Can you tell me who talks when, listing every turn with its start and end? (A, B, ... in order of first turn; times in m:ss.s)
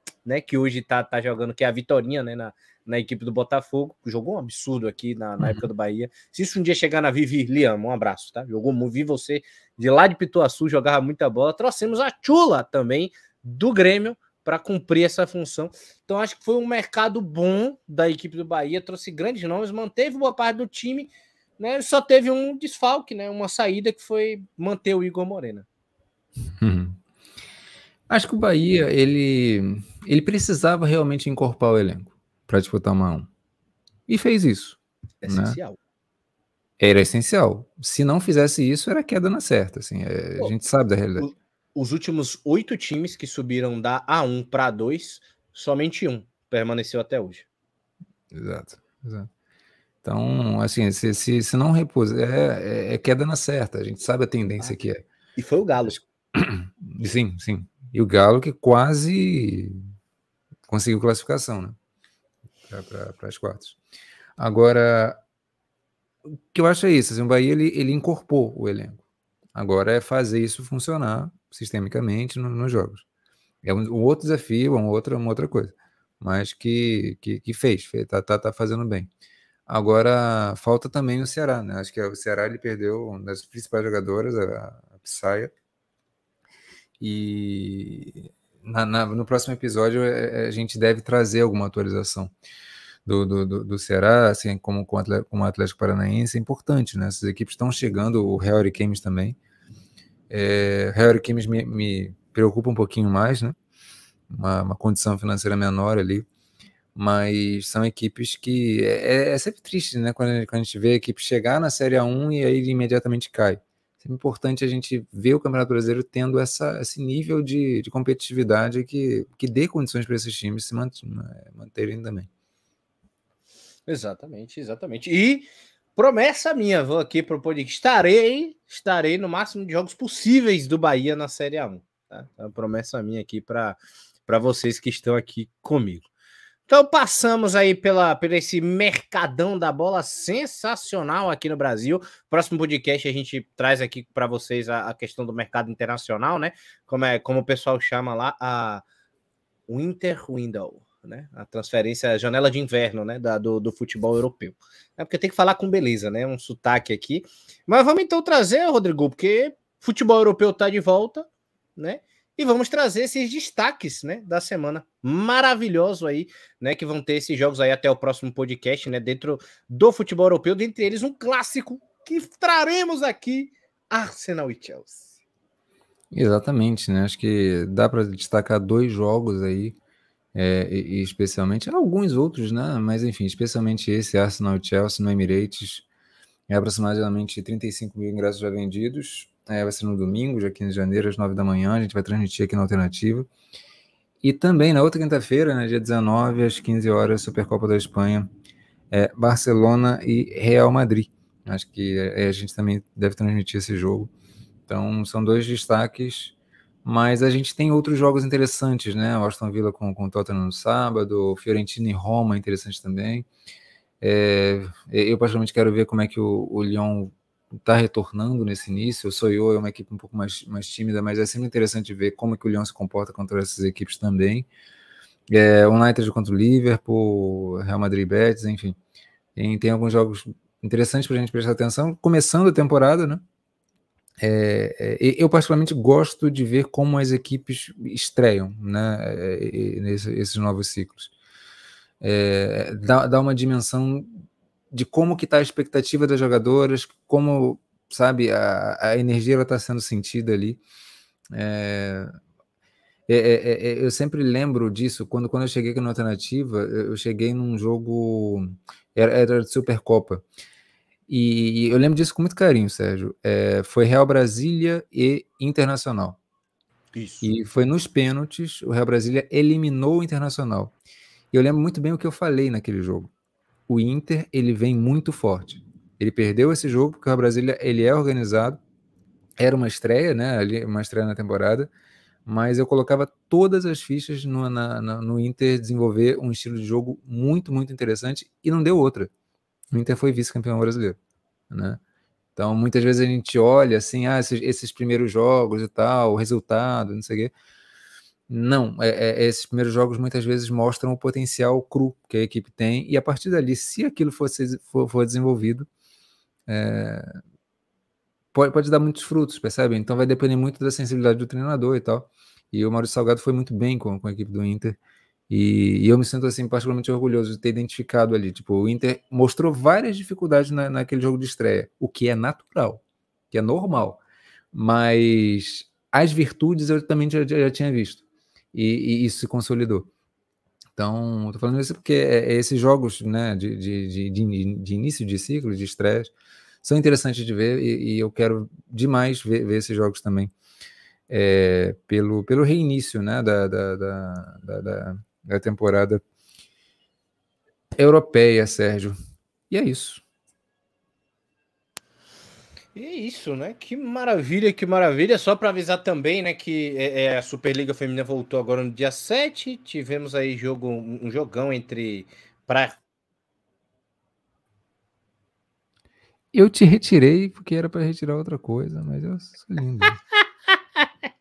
0:00.2-0:25.7 A
0:05.4-0:05.7 B
0:26.6-0:27.0 B
0:28.1-0:33.3 B
0:34.1-0:35.6 B
0:35.2-0:35.8 A
0:36.8-0:41.3 B
0:41.2-0:47.4 A
0:48.3-0:49.3 B
0:50.0-0:55.1 B
0:55.4-0:56.0 A
0:56.4-0:59.8 B
1:00.7-1:01.8 B
1:02.6-1:03.8 B
1:04.4-1:05.2 B
1:06.3-1:09.0 B
1:09.6-1:13.0 B
1:13.6-1:19.1 B
1:19.7-1:25.5 B
1:27.0-1:32.3 B
1:33.1-1:39.4 B
1:40.3-1:43.6 B
1:44.3-1:46.3 B
1:47.0-2:02.3 B
2:03.9-2:16.1 A
2:16.7-2:28.8 A
2:29.7-2:55.1 A
2:56.1-2:59.8 B
3:00.3-3:05.8 B
3:06.5-3:13.3 B
3:14.2-3:18.3 B
3:18.9-3:24.1 B
3:24.7-3:26.3 B
3:26.8-3:33.3 B
3:34.0-3:44.5 B
3:45.3-3:48.8 B
3:49.4-3:53.2 B
3:54.2-4:01.1 B
4:02.0-4:10.6 B
4:11.3-4:12.1 B
4:13.1-4:20.2 B
4:21.1-4:26.2 B
4:26.9-4:27.3 A
4:27.2-4:30.7 B
4:31.3-4:33.1 B
4:33.7-4:38.6 B
4:39.4-4:41.7 B
4:42.3-4:49.1 B
4:49.7-4:51.0 B
4:51.5-4:51.8 B
4:52.4-4:57.3 B
4:58.3-5:05.7 B
5:06.5-5:07.2 B
5:08.3-5:14.8 B
5:15.3-5:24.0 B
5:24.5-5:29.9 B
5:30.8-5:36.1 B
5:36.6-5:40.3 B
5:41.1-5:46.0 B
5:47.8-5:49.0 B
5:49.5-5:50.0 B
5:52.8-6:02.8 A
6:06.3-6:10.0 B